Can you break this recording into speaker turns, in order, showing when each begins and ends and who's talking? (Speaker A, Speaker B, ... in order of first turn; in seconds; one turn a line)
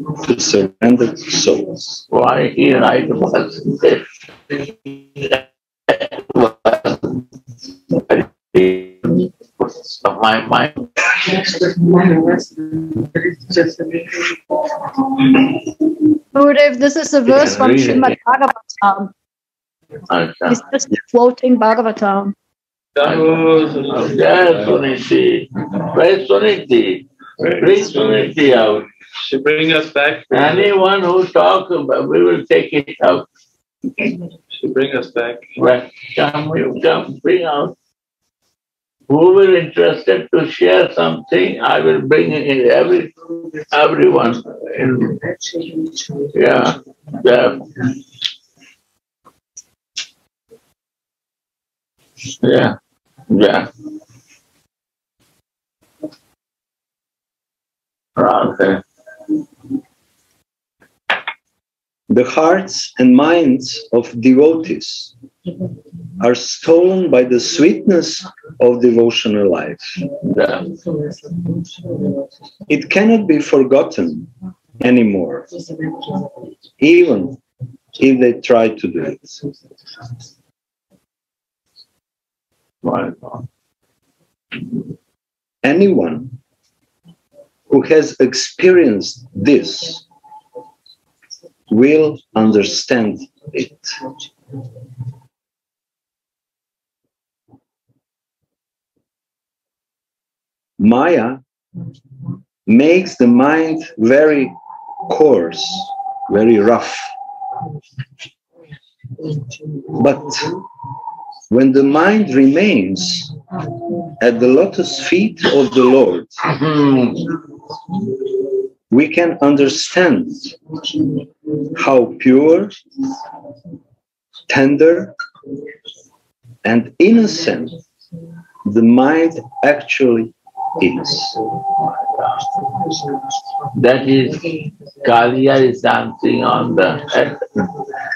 Speaker A: 0.2-1.8
Speaker B: 2.1-4.0
Speaker B: 4.9-7.2
Speaker B: 7.9-11.3
Speaker C: 16.3-19.1
Speaker B: 17.2-18.1
Speaker B: 20.1-20.6
Speaker C: 20.5-22.3
Speaker D: 22.9-24.3
Speaker B: 23.9-28.9
Speaker D: 27.4-28.3
Speaker D: 29.2-30.7
Speaker B: 30.3-33.2
Speaker D: 34.6-35.4
Speaker B: 35.6-37.7
Speaker B: 39.1-43.2
Speaker B: 43.7-45.2
Speaker B: 46.3-47.8
Speaker B: 52.4-52.8
Speaker B: 53.3-53.7
Speaker B: 58.2-58.8
Speaker A: 62.1-65.1
Speaker A: 66.2-70.0
Speaker B: 70.3-70.7
Speaker A: 72.7-75.5
Speaker A: 76.8-77.4
Speaker A: 78.0-79.3
Speaker B: 82.8-83.4
Speaker A: 85.6-86.3
Speaker A: 87.7-90.0
Speaker A: 91.7-93.8
Speaker A: 100.8-101.4
Speaker A: 102.7-104.5
Speaker A: 105.1-107.1
Speaker A: 109.9-110.6
Speaker A: 111.5-113.3
Speaker A: 114.2-116.4
Speaker B: 116.4-117.2
Speaker A: 118.9-120.5
Speaker A: 121.7-122.7
Speaker A: 124.5-125.1
Speaker A: 126.6-127.8
Speaker A: 128.6-131.4
Speaker B: 133.7-137.4